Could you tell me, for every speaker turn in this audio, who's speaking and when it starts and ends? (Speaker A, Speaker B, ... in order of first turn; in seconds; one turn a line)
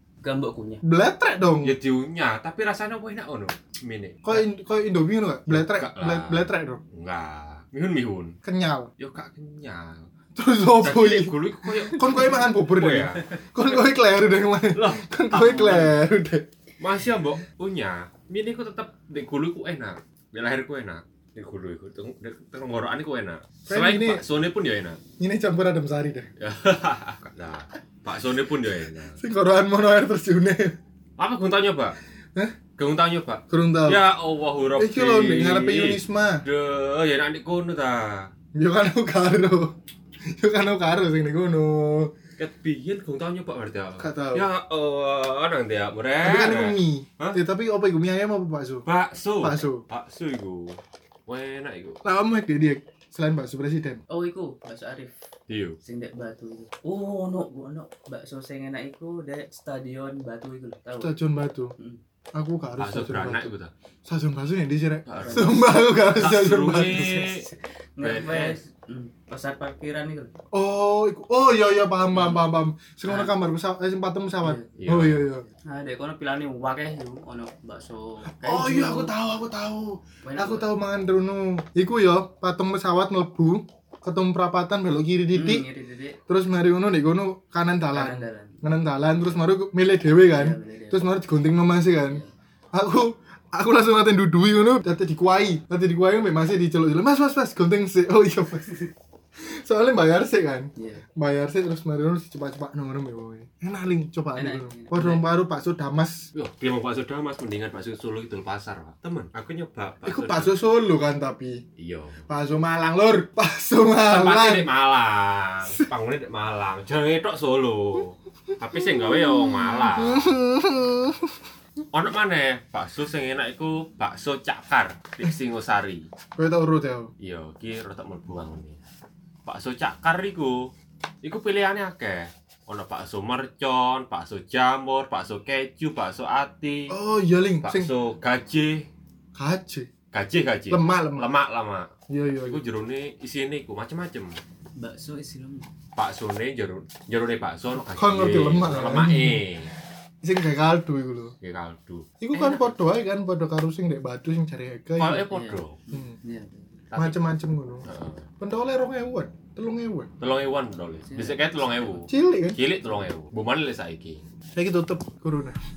Speaker A: 0.2-0.8
Speaker B: 0.8-1.8
Speaker C: 1.6-4.5
Speaker B: 4.2-6.8
Speaker C: 5.5-8.4
Speaker B: 8.4-8.9
Speaker C: 9.0-10.1
Speaker B: 10.3-16.5
Speaker C: 10.8-13.6
Speaker C: 14.7-15.9
Speaker A: 15.3-15.9
Speaker C: 16.8-25.0
Speaker B: 23.7-24.2
Speaker B: 25.2-26.3
Speaker C: 26.4-29.2
Speaker B: 29.2-30.8
Speaker C: 31.2-32.0
Speaker C: 32.8-38.3
Speaker B: 33.5-34.0
Speaker B: 34.8-36.5
Speaker B: 38.5-42.1
Speaker C: 42.4-47.4
Speaker B: 44.0-44.5
Speaker B: 46.2-48.9
Speaker C: 48.9-52.0
Speaker B: 49.4-49.8
Speaker B: 52.0-54.0
Speaker A: 54.1-55.1
Speaker C: 55.5-55.8
Speaker A: 55.8-61.1
Speaker B: 61.0-61.7
Speaker B: 62.3-63.5
Speaker C: 62.8-63.7
Speaker B: 64.1-67.3
Speaker C: 65.1-67.5
Speaker A: 65.2-65.7
Speaker A: 67.1-70.3
Speaker C: 68.0-68.7
Speaker B: 70.5-75.5
Speaker A: 72.1-72.4
Speaker A: 73.0-73.3
Speaker A: 74.4-74.7
Speaker C: 74.8-75.2
Speaker A: 75.6-79.1
Speaker B: 78.3-85.7
Speaker A: 80.2-80.7
Speaker A: 85.3-86.2
Speaker B: 86.3-106.3
Speaker A: 87.9-88.6
Speaker A: 90.3-91.1
Speaker A: 100.8-101.0
Speaker A: 104.3-105.3
Speaker C: 106.3-110.5
Speaker B: 110.0-111.6
Speaker C: 111.8-112.2
Speaker B: 112.3-114.7
Speaker C: 114.1-120.4
Speaker B: 119.9-121.3
Speaker C: 121.9-126.1
Speaker B: 126.4-127.1
Speaker C: 127.2-128.8
Speaker C: 129.5-136.9
Speaker B: 136.9-137.9
Speaker C: 137.6-138.9
Speaker B: 139.3-139.9
Speaker C: 140.1-141.9
Speaker B: 140.7-141.2
Speaker B: 142.1-142.6
Speaker C: 142.4-144.4
Speaker A: 144.8-145.7
Speaker C: 146.0-149.7
Speaker B: 147.9-149.5
Speaker B: 150.2-151.3
Speaker C: 151.4-152.1
Speaker B: 152.2-155.3
Speaker A: 152.3-152.8
Speaker C: 155.0-155.8
Speaker A: 155.3-156.9
Speaker C: 156.9-157.2
Speaker B: 156.9-157.9
Speaker C: 157.9-158.2
Speaker B: 158.4-160.1
Speaker C: 160.2-164.2
Speaker A: 161.1-162.1
Speaker B: 162.1-162.6
Speaker B: 164.6-165.6